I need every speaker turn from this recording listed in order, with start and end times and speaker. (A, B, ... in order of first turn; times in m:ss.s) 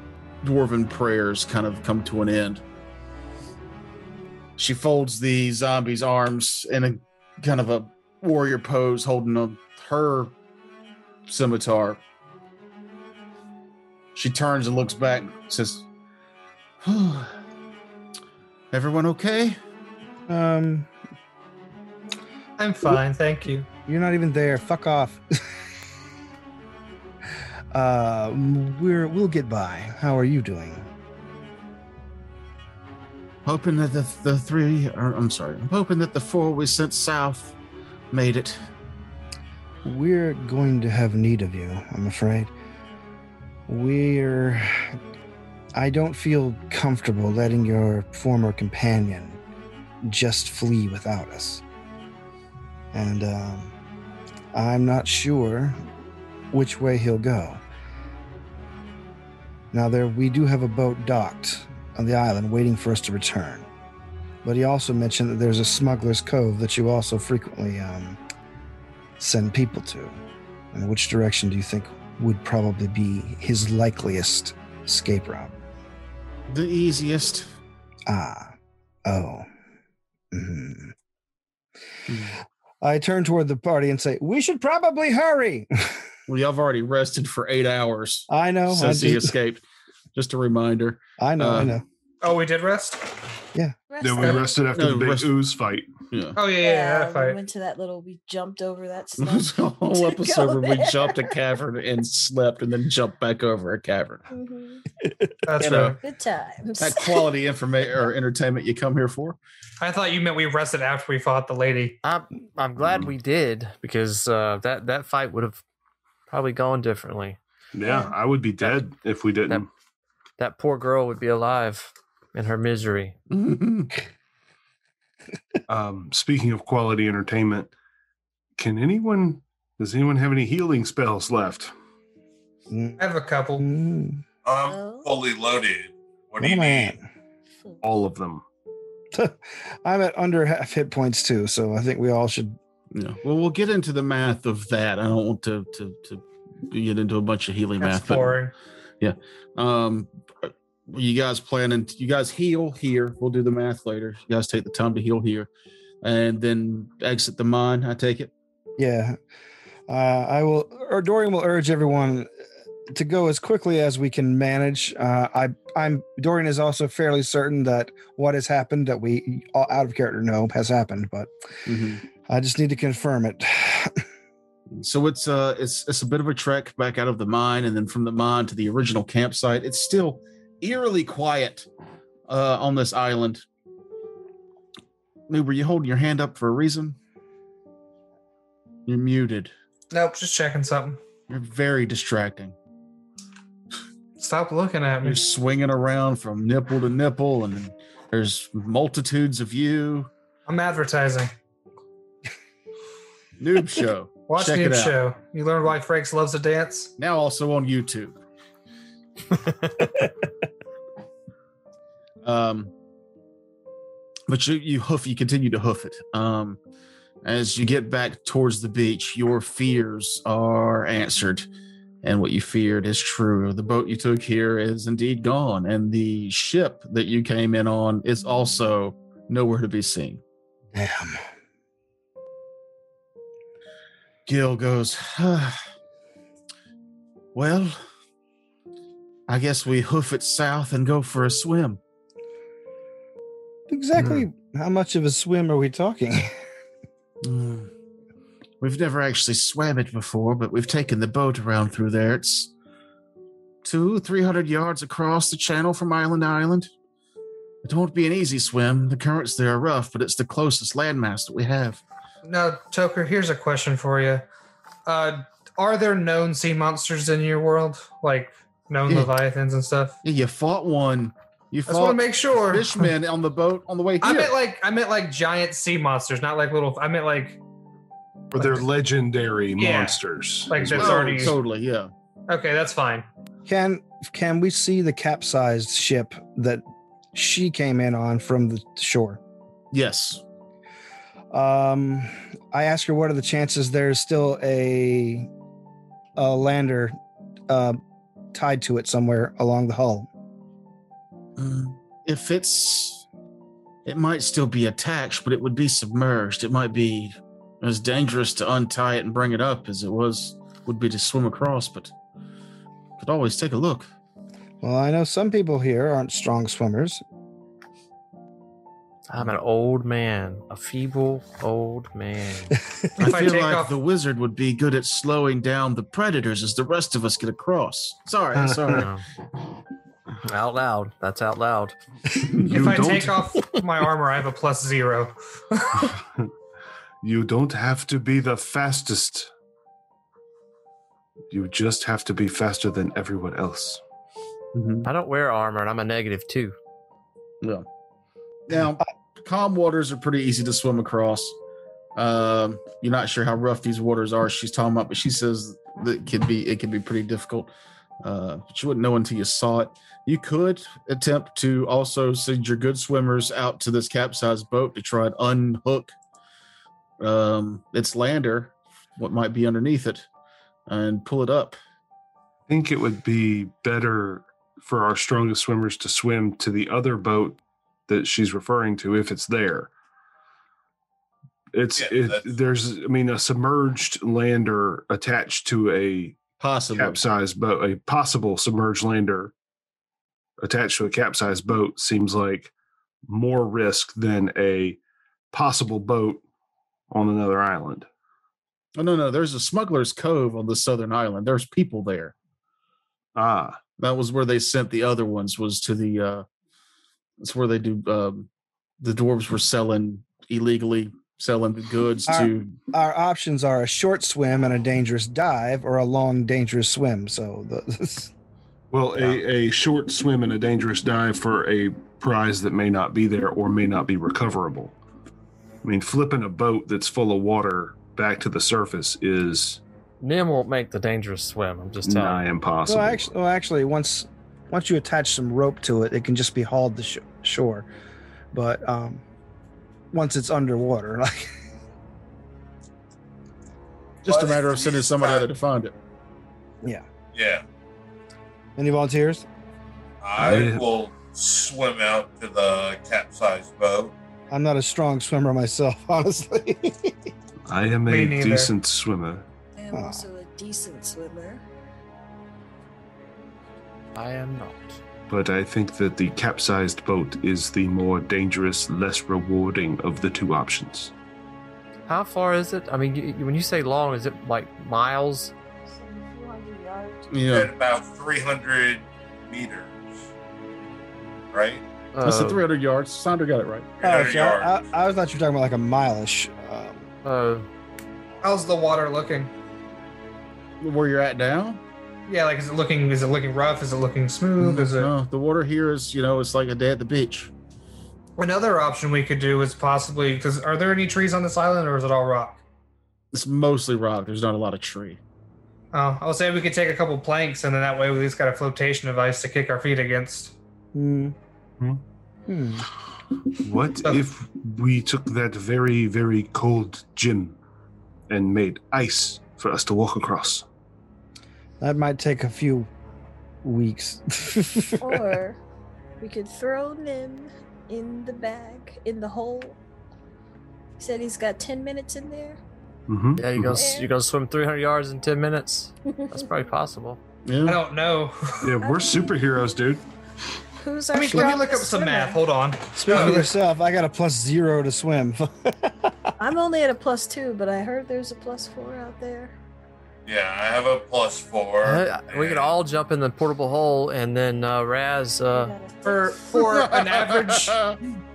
0:00.4-0:02.6 A
0:04.6-0:10.3 A
0:11.3-0:12.0 A
0:14.2-0:15.9 A
0:16.8-0:17.4 A
0:18.7-0:19.6 A
0:20.3-0:20.9 B
0:22.6-0:23.7 C
0:23.9-0:25.2 B
0:27.7-0:30.9 B
0:33.4-0:37.6 A
0:38.1-0:38.6 A
0:39.8-0:42.5 B
0:43.7-0:45.0 B
0:45.8-0:49.4 B
0:50.0-0:51.6 B
0:52.9-0:53.7 B
0:54.5-0:55.8 B
0:56.5-0:57.6 B
0:59.7-1:03.7 B
1:04.4-1:08.2 B
1:09.2-1:10.2 B
1:10.7-1:15.5 B
1:16.5-1:17.5 A
1:18.1-1:18.5 B
1:19.1-1:19.5 B
1:20.3-1:21.0 B
1:22.1-1:22.4 A
1:22.8-1:26.0 B
1:26.3-1:29.6 A
1:28.3-1:29.3 B
1:30.2-1:31.8 A
1:31.2-1:31.8 B
1:32.2-1:33.1 C
1:33.9-1:34.6 D
1:34.0-1:35.9 E
1:34.7-1:35.3 A
1:36.1-1:36.4 A
1:36.4-1:37.4 C
1:36.6-1:41.4 D
1:39.2-1:44.2 A
1:44.3-1:44.8 D
1:45.1-1:45.3 B
1:45.5-1:46.0 C
1:45.6-1:46.0 A
1:46.0-1:47.3 D
1:46.8-1:49.4 A
1:49.8-1:52.0 C
1:52.0-1:55.6 F
1:56.3-1:57.4 F
1:57.7-1:59.7 E
1:57.8-1:58.1 D
2:00.4-2:03.2 F
2:03.3-2:03.9 A
2:05.7-2:07.7 E
2:08.6-2:11.7 E
2:12.7-2:13.0 B
2:13.0-2:13.6 C
2:13.6-2:14.2 B
2:14.4-2:17.0 G
2:14.7-2:15.1 D
2:16.4-2:17.0 B
2:17.5-2:17.8 D
2:17.8-2:18.4 E
2:19.1-2:22.6 B
2:22.9-2:28.4 A
2:27.8-2:28.5 C
2:29.0-2:35.5 A
2:36.0-2:38.3 A
2:38.8-2:39.2 B
2:39.9-2:42.3 B
2:42.9-2:51.3 B
2:51.7-2:52.0 A
2:52.3-2:54.0 B
2:54.7-3:01.7 A
3:02.3-3:03.4 A
3:05.3-3:07.0 A
3:08.9-3:09.5 A
3:09.9-3:11.0 C
3:11.3-3:12.6 A
3:14.2-3:15.2 C
3:15.0-3:20.1 A
3:20.5-3:21.3 C
3:23.4-3:25.0 A
3:24.3-3:26.9 C
3:27.0-3:28.2 A
3:32.2-3:32.7 A
3:34.3-3:36.6 A
3:37.2-3:41.5 A
3:42.0-3:50.2 A
3:50.7-3:51.2 B
3:54.3-3:55.6 A
3:57.3-3:57.8 A
3:59.3-4:01.8 A
4:03.7-4:06.3 B
4:07.2-4:07.7 A
4:08.6-4:12.5 A
4:13.6-4:16.7 A
4:17.6-4:21.8 A
4:22.2-4:24.3 C
4:24.9-4:30.0 C
4:28.9-4:29.1 A
4:30.0-4:34.3 A
4:31.7-4:32.9 C
4:34.0-4:37.4 C
4:38.3-4:41.4 E
4:39.6-4:41.4 C
4:40.7-4:41.9 A
4:42.3-4:43.1 C
4:43.5-4:46.6 B
4:47.1-4:49.2 B
4:49.7-4:50.2 A
4:51.3-4:55.3 B
4:56.2-4:57.0 B
4:57.5-4:57.8 B
4:58.3-5:00.1 B
5:01.4-5:03.0 A
5:03.9-5:11.9 A
5:13.0-5:13.9 A
5:14.6-5:17.0 B
5:19.1-5:22.6 F
5:23.0-5:28.9 A
5:23.0-5:23.7 C
5:28.4-5:28.8 E
5:28.7-5:29.0 F
5:30.2-5:31.8 F
5:32.2-5:32.8 A
5:32.4-5:33.4 E
5:32.5-5:36.0 C
5:35.9-5:36.3 E
5:37.0-5:39.3 E
5:41.3-5:43.8 E
5:44.5-5:44.9 A
5:44.8-5:46.6 F
5:48.5-5:51.4 A
5:52.0-5:57.5 A
5:58.0-6:06.0 A
6:07.0-6:10.1 A
6:10.7-6:11.6 A
6:12.5-6:19.7 E
6:21.5-6:26.2 E
6:21.8-6:22.2 G
6:26.4-6:27.0 A
6:26.7-6:29.3 E
6:30.4-6:32.5 E
6:33.1-6:34.8 E
6:35.3-6:36.2 E
6:36.9-6:37.9 E
6:38.8-6:42.1 A
6:43.2-6:43.6 E
6:43.8-6:46.2 A
6:47.2-6:48.3 A
6:48.8-6:52.6 A
6:52.1-6:58.1 B
6:58.7-7:04.8 E
7:05.6-7:09.6 E
7:10.0-7:12.2 F
7:11.8-7:13.1 E
7:12.7-7:17.7 B
7:18.3-7:19.0 B
7:19.9-7:21.3 B
7:24.1-7:25.3 G
7:24.1-7:25.7 A
7:27.1-7:27.4 G
7:28.6-7:29.2 B
7:30.0-7:33.9 G
7:30.2-7:30.6 E
7:34.3-7:37.1 B
7:37.5-7:39.3 E
7:37.9-7:38.5 C
7:39.6-7:41.4 D
7:39.7-7:40.0 B
7:44.0-7:44.8 F
7:45.1-7:50.9 E
7:51.9-7:55.3 F
7:55.7-7:57.2 D
7:57.1-7:57.5 A
7:57.3-8:00.1 G
8:01.3-8:01.6 G
8:01.9-8:02.4 F
8:02.0-8:03.7 A
8:03.8-8:04.6 G
8:03.8-8:06.9 B
8:07.0-8:07.5 F
8:08.2-8:09.3 C
8:10.6-8:11.6 A
8:12.1-8:14.9 C
8:14.4-8:17.3 A
8:18.2-8:22.4 C
8:23.1-8:25.0 A
8:25.7-8:30.3 C
8:30.7-8:31.2 B
8:32.3-8:32.7 B
8:33.4-8:37.4 E
8:38.1-8:40.4 E
8:41.6-8:42.7 B
8:43.4-8:45.2 B
8:44.8-8:45.4 D
8:46.0-8:49.6 D
8:50.8-8:52.4 D
8:52.9-8:53.6 E
8:53.2-8:57.0 F
8:53.5-8:53.9 D
8:56.0-8:56.3 D
8:57.3-8:57.6 A
8:57.5-8:58.5 C
8:58.4-8:59.8 E
8:58.6-8:59.1 D
9:00.6-9:02.2 D
9:00.9-9:03.3 C
9:02.8-9:06.1 B
9:06.2-9:09.4 D
9:10.1-9:12.5 G
9:11.6-9:15.6 F
9:15.3-9:16.3 D
9:15.8-9:17.6 C
9:16.3-9:17.8 A